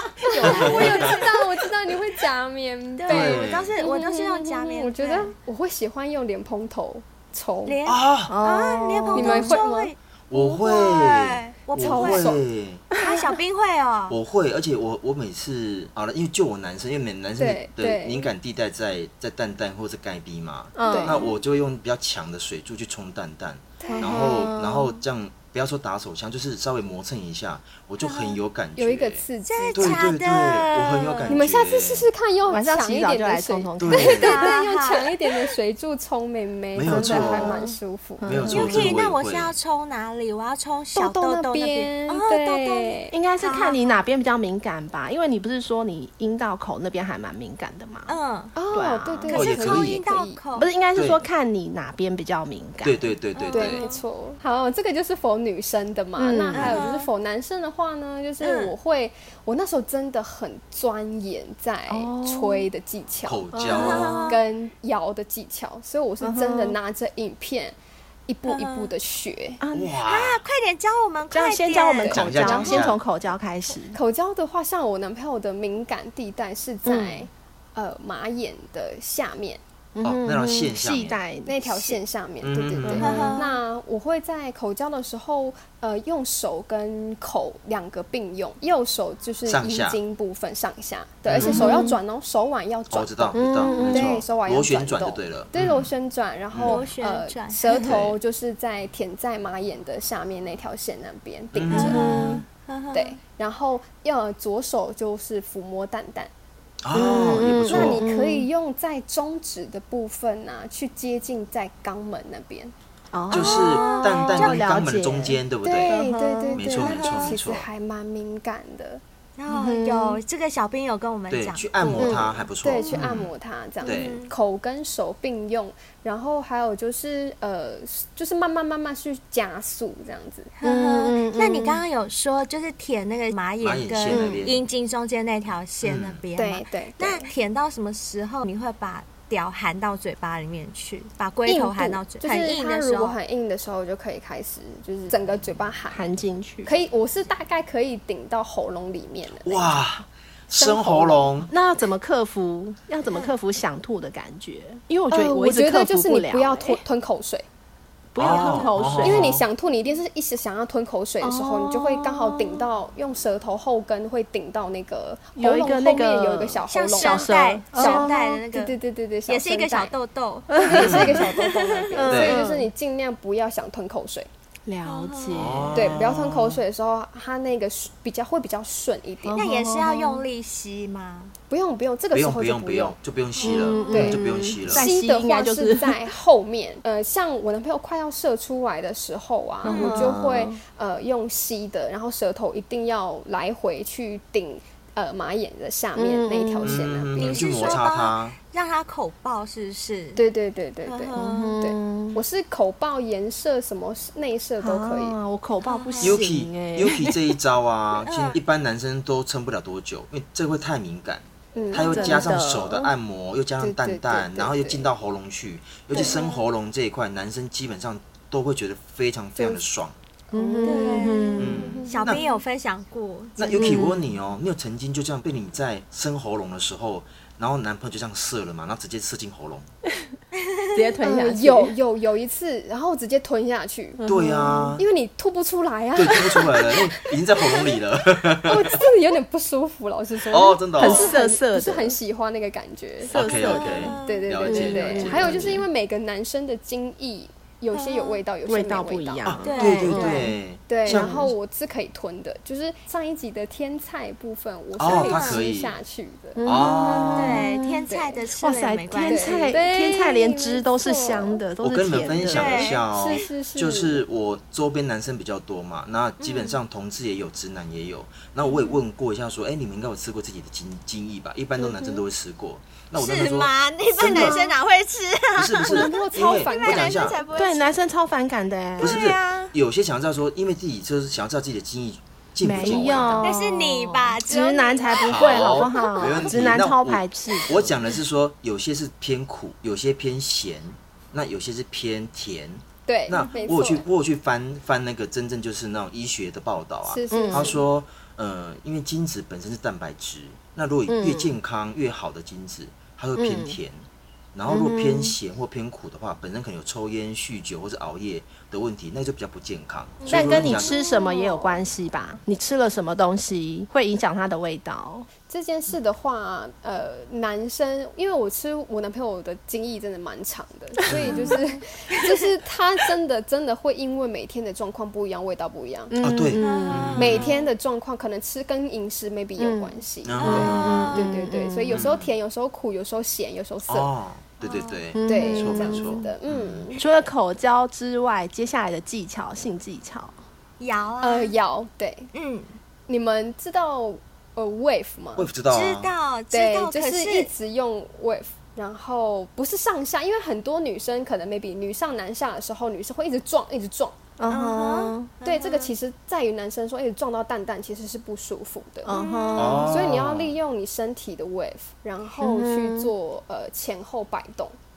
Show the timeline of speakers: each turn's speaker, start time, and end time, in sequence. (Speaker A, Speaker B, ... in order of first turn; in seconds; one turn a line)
Speaker A: 0.2-7.7
Speaker B: 0.3-1.2
Speaker C: 0.4-1.3
Speaker D: 0.5-1.0
Speaker C: 3.0-5.3
Speaker D: 3.1-3.7
Speaker C: 7.7-12.3
Speaker D: 7.8-8.3
Speaker B: 8.3-9.6
Speaker A: 9.1-9.9
Speaker D: 10.3-12.9
Speaker A: 11.8-12.4
Speaker C: 13.0-14.2
Speaker D: 14.1-29.2
Speaker A: 17.4-18.3
Speaker B: 20.7-21.3
Speaker A: 20.9-21.2
Speaker A: 23.8-24.5
Speaker B: 23.9-25.0
Speaker C: 28.0-28.4
Speaker A: 28.8-30.1
Speaker C: 29.5-31.4
Speaker D: 29.7-32.1
Speaker A: 31.3-38.5
Speaker B: 32.5-34.2
Speaker D: 33.8-34.4
Speaker C: 34.0-35.1
Speaker D: 36.7-37.6
Speaker B: 36.9-37.7
Speaker B: 38.2-39.0
Speaker D: 38.2-39.5
Speaker C: 38.5-44.0
Speaker A: 41.0-43.1
Speaker B: 43.1-48.1
Speaker C: 48.1-48.5
Speaker A: 48.5-50.4
Speaker B: 48.7-49.3
Speaker C: 49.3-50.7
Speaker D: 49.3-50.0
Speaker B: 50.5-53.1
Speaker D: 50.9-51.2
Speaker D: 52.8-53.8
Speaker C: 53.3-54.0
Speaker A: 53.5-63.5
Speaker B: 56.2-56.9
Speaker C: 56.5-57.1
Speaker C: 58.4-58.7
Speaker B: 61.9-62.7
Speaker D: 63.2-64.3
Speaker B: 63.5-64.2
Speaker C: 63.7-64.4
Speaker A: 64.3-67.8
Speaker B: 66.2-66.8
Speaker A: 68.3-69.6
Speaker C: 68.5-68.9
Speaker B: 69.6-70.0
Speaker D: 69.7-70.4
Speaker C: 70.0-72.9
Speaker B: 71.3-74.0
Speaker A: 72.0-72.5
Speaker D: 72.1-73.0
Speaker A: 73.9-79.6
Speaker B: 76.8-77.3
Speaker B: 80.0-82.0
Speaker D: 80.0-81.2
Speaker A: 81.4-102.1
Speaker D: 82.4-83.4
Speaker B: 82.8-83.4
Speaker C: 83.0-83.5
Speaker D: 89.5-90.0
Speaker D: 91.2-91.7
Speaker B: 91.4-92.0
Speaker C: 91.4-91.8
Speaker D: 92.9-95.9
Speaker B: 93.3-94.2
Speaker D: 96.5-96.8
Speaker C: 96.6-97.9
Speaker D: 97.8-98.2
Speaker D: 101.5-102.3
Speaker C: 101.7-103.1
Speaker B: 101.9-102.4
Speaker A: 102.9-106.3
Speaker D: 106.8-108.0
Speaker B: 106.9-108.5
Speaker A: 107.4-112.7
Speaker B: 113.1-116.8
Speaker C: 113.3-114.6
Speaker D: 113.3-115.9
Speaker A: 115.6-119.0
Speaker D: 116.5-117.7
Speaker C: 116.7-117.4
Speaker C: 119.4-122.3
Speaker B: 119.5-120.2
Speaker D: 121.3-123.3
Speaker B: 122.0-122.3
Speaker A: 122.6-130.5
Speaker C: 123.8-124.3
Speaker D: 123.8-124.2
Speaker C: 130.6-143.2
Speaker B: 130.6-131.8
Speaker D: 133.6-134.6
Speaker B: 134.1-134.5
Speaker D: 135.8-136.2
Speaker A: 136.3-137.3
Speaker A: 141.5-146.0
Speaker B: 145.9-146.7
Speaker A: 146.6-149.7
Speaker D: 149.4-151.5
Speaker A: 150.5-151.4
Speaker B: 151.5-156.8
Speaker A: 155.1-157.4
Speaker B: 158.1-159.3
Speaker D: 158.2-159.4
Speaker A: 158.3-169.9
Speaker B: 161.2-162.6
Speaker B: 165.3-168.4
Speaker C: 166.7-168.7
Speaker C: 169.3-171.4
Speaker B: 170.5-171.0
Speaker A: 170.5-174.3
Speaker D: 170.8-171.2
Speaker B: 171.9-172.7
Speaker D: 172.0-172.4
Speaker B: 174.7-176.0
Speaker C: 174.8-175.7
Speaker D: 175.3-176.6
Speaker A: 175.7-179.4
Speaker B: 179.2-180.3
Speaker C: 179.3-181.3
Speaker A: 181.5-183.0
Speaker D: 182.1-184.9
Speaker C: 183.3-184.2
Speaker B: 183.4-186.1
Speaker A: 183.9-197.8
Speaker B: 189.6-190.6
Speaker C: 189.7-190.1
Speaker B: 195.9-196.9
Speaker D: 196.6-198.3
Speaker C: 197.2-200.2
Speaker A: 200.2-205.2
Speaker C: 200.8-201.6
Speaker B: 201.2-202.2
Speaker B: 204.6-207.4
Speaker C: 205.6-206.2
Speaker D: 206.0-220.0
Speaker C: 207.9-208.4
Speaker A: 211.5-212.5
Speaker B: 211.7-212.8
Speaker A: 213.6-214.9
Speaker C: 215.9-216.4
Speaker A: 219.4-219.6
Speaker A: 220.3-222.3
Speaker B: 220.3-221.8
Speaker C: 220.6-223.8
Speaker D: 221.4-222.2
Speaker D: 223.4-229.7
Speaker B: 223.5-224.1
Speaker C: 230.4-230.7
Speaker B: 230.7-231.7
Speaker A: 231.0-234.0
Speaker B: 234.0-234.8
Speaker D: 234.1-234.8
Speaker A: 234.8-237.7
Speaker D: 235.9-238.8
Speaker A: 238.4-249.3
Speaker D: 240.3-241.1
Speaker B: 240.7-241.9
Speaker B: 243.0-245.3
Speaker D: 243.1-245.7
Speaker C: 243.2-244.6
Speaker C: 247.7-248.2
Speaker B: 248.4-250.2
Speaker D: 249.2-251.3
Speaker C: 249.4-250.3
Speaker A: 249.9-256.4
Speaker B: 250.8-251.2
Speaker D: 254.8-255.7
Speaker C: 254.8-255.4
Speaker B: 256.4-257.9
Speaker D: 256.4-257.4
Speaker C: 257.1-259.5
Speaker A: 257.9-258.2
Speaker B: 258.4-262.8
Speaker A: 259.1-261.4
Speaker D: 261.6-274.4
Speaker C: 262.2-263.2
Speaker A: 262.5-264.0
Speaker C: 266.2-266.6
Speaker C: 272.9-277.7
Speaker B: 274.1-274.4
Speaker D: 275.4-277.2
Speaker A: 275.7-277.2
Speaker B: 277.3-279.0
Speaker D: 278.8-283.3
Speaker C: 278.8-279.5
Speaker B: 282.4-287.8
Speaker C: 282.6-286.2
Speaker D: 285.0-310.7
Speaker A: 286.0-286.3
Speaker A: 292.9-293.8
Speaker A: 296.8-297.6
Speaker B: 297.1-297.6
Speaker B: 300.9-301.3
Speaker B: 303.1-303.6
Speaker B: 304.5-305.1
Speaker A: 310.0-311.4
Speaker B: 310.1-315.1
Speaker A: 315.3-325.9
Speaker B: 320.8-321.4
Speaker D: 320.9-321.2
Speaker B: 325.9-327.3
Speaker D: 326.0-327.3
Speaker C: 326.4-327.3
Speaker A: 326.9-333.9
Speaker B: 329.4-331.9
Speaker D: 330.0-330.9
Speaker C: 330.2-331.0
Speaker D: 331.7-332.1
Speaker D: 333.7-336.7
Speaker C: 334.4-334.8
Speaker B: 334.9-336.1
Speaker A: 335.0-336.9
Speaker B: 336.8-340.1
Speaker C: 340.6-341.3
Speaker A: 341.0-342.1
Speaker C: 342.1-342.5
Speaker A: 342.9-345.3
Speaker D: 345.1-345.9
Speaker C: 345.5-347.3
Speaker A: 346.3-353.9
Speaker B: 354.2-355.1
Speaker C: 354.3-355.7
Speaker A: 355.2-358.9
Speaker B: 358.8-359.8
Speaker C: 358.9-359.8
Speaker D: 359.4-360.3
Speaker A: 359.6-364.6
Speaker B: 362.2-362.9